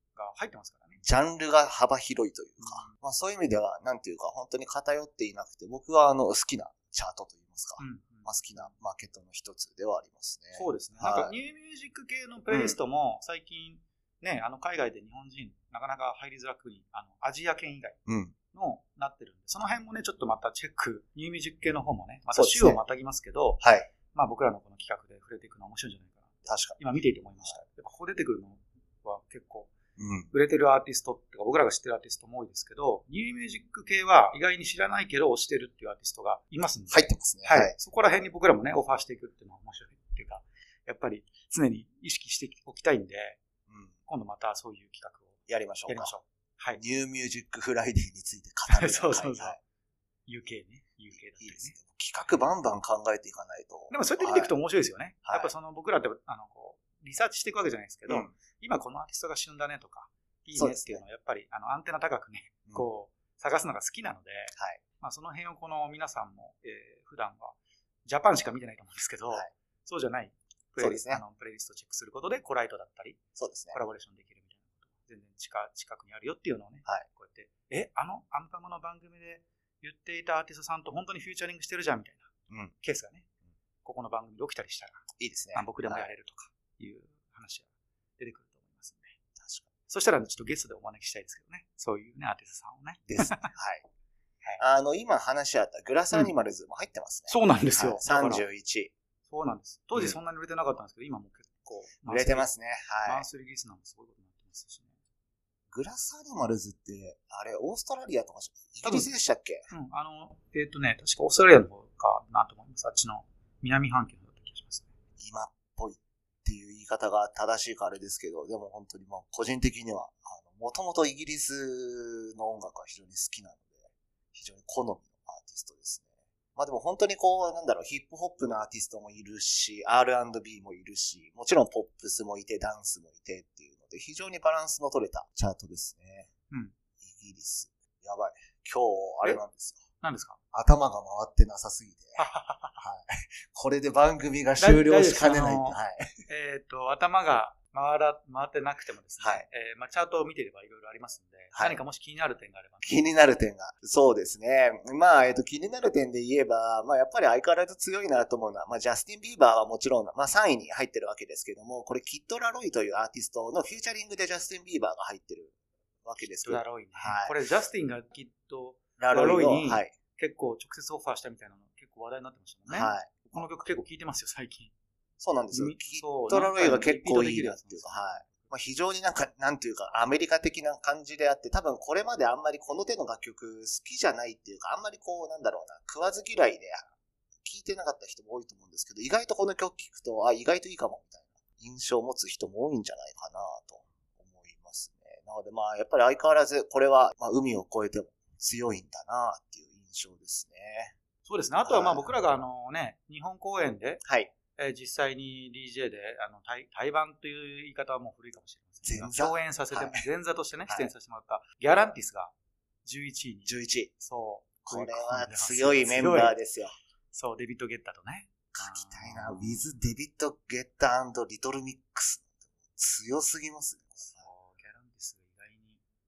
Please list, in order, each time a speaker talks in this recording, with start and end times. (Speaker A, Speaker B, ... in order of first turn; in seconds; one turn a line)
Speaker A: 0.1-1.0
Speaker B: 1.0-11.3
Speaker A: 2.6-2.9
Speaker A: 7.8-8.7
Speaker A: 10.5-18.0
Speaker B: 12.5-12.8
Speaker B: 18.1-18.3
Speaker A: 18.5-26.2
Speaker B: 22.3-22.8
Speaker B: 23.6-23.9
Speaker B: 26.4-26.8
Speaker A: 26.8-29.7
Speaker B: 30.0-30.3
Speaker A: 30.3-43.4
Speaker B: 36.9-37.7
Speaker B: 43.7-43.9
Speaker A: 44.1-45.4
Speaker B: 45.5-46.1
Speaker A: 45.9-46.8
Speaker B: 46.8-49.6
Speaker A: 48.7-49.6
Speaker A: 50.3-51.8
Speaker B: 51.3-54.5
Speaker A: 53.9-73.2
Speaker B: 55.3-55.5
Speaker B: 58.1-58.3
Speaker B: 60.5-61.0
Speaker B: 70.8-71.2
Speaker B: 73.4-73.8
Speaker A: 73.7-82.3
Speaker A: 82.8-83.2
Speaker A: 83.8-89.1
Speaker B: 85.2-86.1
Speaker B: 89.4-89.7
Speaker A: 89.9-93.5
Speaker B: 93.1-93.8
Speaker B: 94.6-98.9
Speaker A: 97.3-98.4
Speaker A: 99.3-102.5
Speaker B: 102.1-103.2
Speaker A: 103.0-104.9
Speaker B: 105.7-109.7
Speaker A: 108.8-109.1
Speaker A: 109.7-114.8
Speaker B: 115.2-136.3
Speaker B: 137.0-139.8
Speaker A: 140.0-140.4
Speaker B: 140.5-142.2
Speaker A: 142.2-142.8
Speaker B: 142.8-146.2
Speaker A: 144.6-153.0
Speaker B: 149.2-149.4
Speaker B: 152.8-167.4
Speaker A: 166.4-174.7
Speaker B: 169.0-169.9
Speaker B: 172.7-173.5
Speaker B: 175.2-186.9
Speaker A: 175.5-178.4
Speaker B: 187.4-200.9
Speaker A: 201.2-204.0
Speaker B: 201.6-202.2
Speaker B: 204.0-204.3
Speaker A: 204.6-212.3
Speaker B: 208.8-210.0
Speaker A: 212.8-216.3
Speaker B: 213.4-213.9
Speaker B: 214.6-216.7
Speaker A: 217.1-219.8
Speaker B: 218.5-224.2
Speaker A: 224.0-225.8